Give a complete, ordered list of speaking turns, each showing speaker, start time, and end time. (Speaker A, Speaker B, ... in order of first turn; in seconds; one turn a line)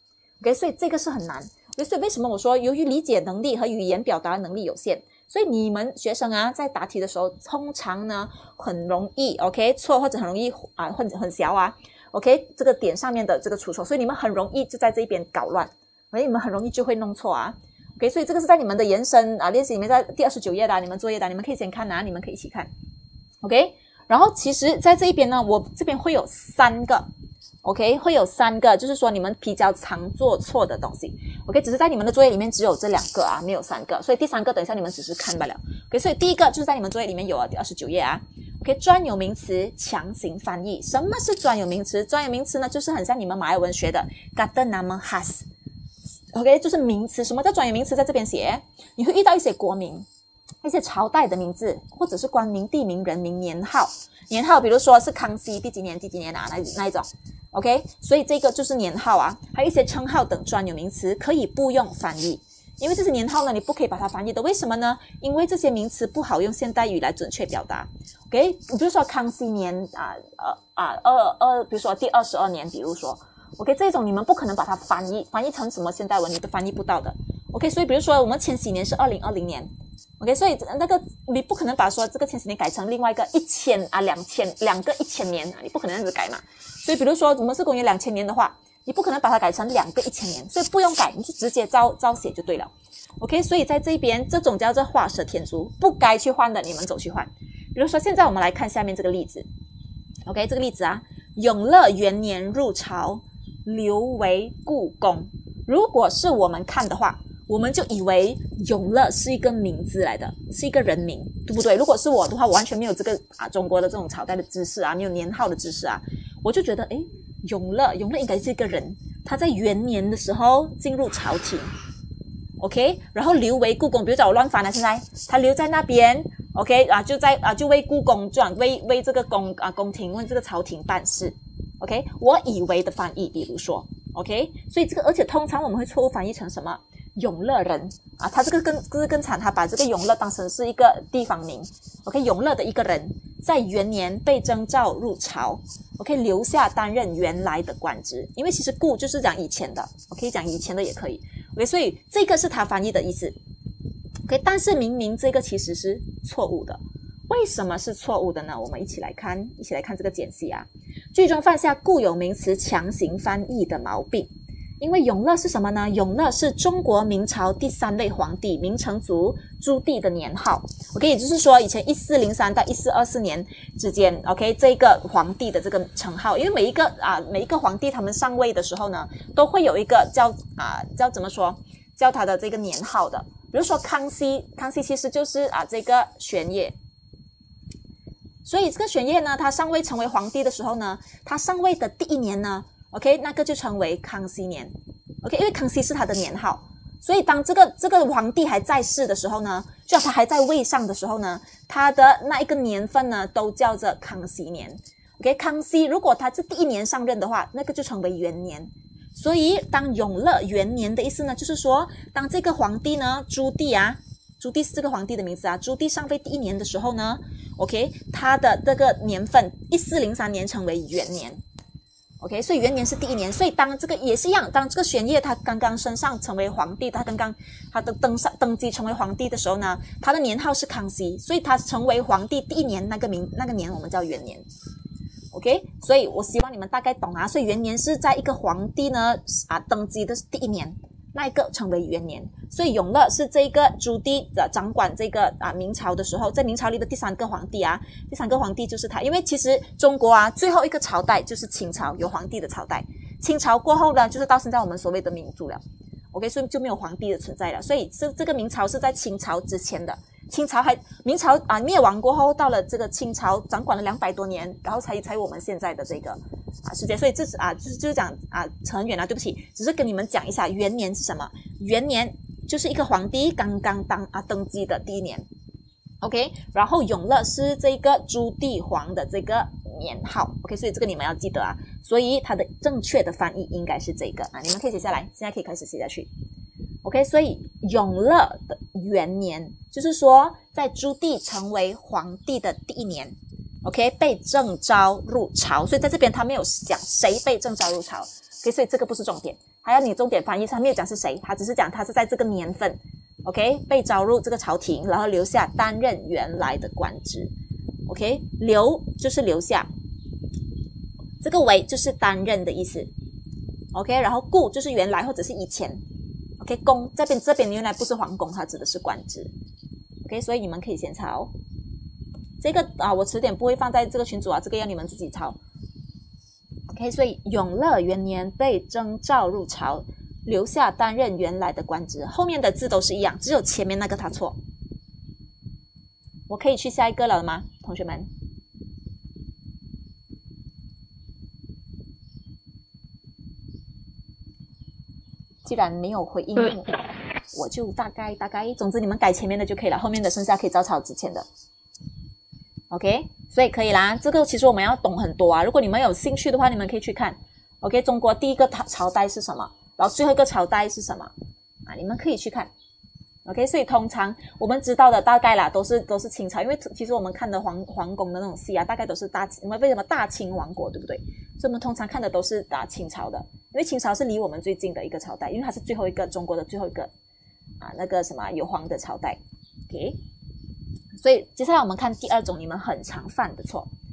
Speaker A: 0.4-22.7
Speaker A: 23.4-27.1
Speaker A: 27.6-45.5
Speaker A: 46.3-50.0
Speaker A: 50.6-99.5
Speaker A: 100.2-121.7
Speaker A: 122.6-153.3
Speaker A: 154.2-164.3
Speaker A: 164.8-186.8
Speaker A: 188.4-221.4
Speaker A: 222.2-234.4
Speaker A: 235.3-275.2
Speaker A: 276.0-286.1
Speaker A: 286.8-307.3
Speaker A: 307.9-309.7
Speaker A: 311.2-312.9
Speaker A: 313.7-315.8
Speaker A: 316.4-319.3
Speaker A: 320.0-321.3
Speaker A: 322.4-325.4
Speaker A: 326.7-334.4
Speaker A: 336.3-338.1
Speaker A: 345.4-346.8
Speaker A: 347.3-351.3
Speaker A: 352.7-361.1
Speaker A: 361.6-362.5
Speaker A: 363.2-376.9
Speaker A: 377.6-380.0
Speaker A: 381.0-383.7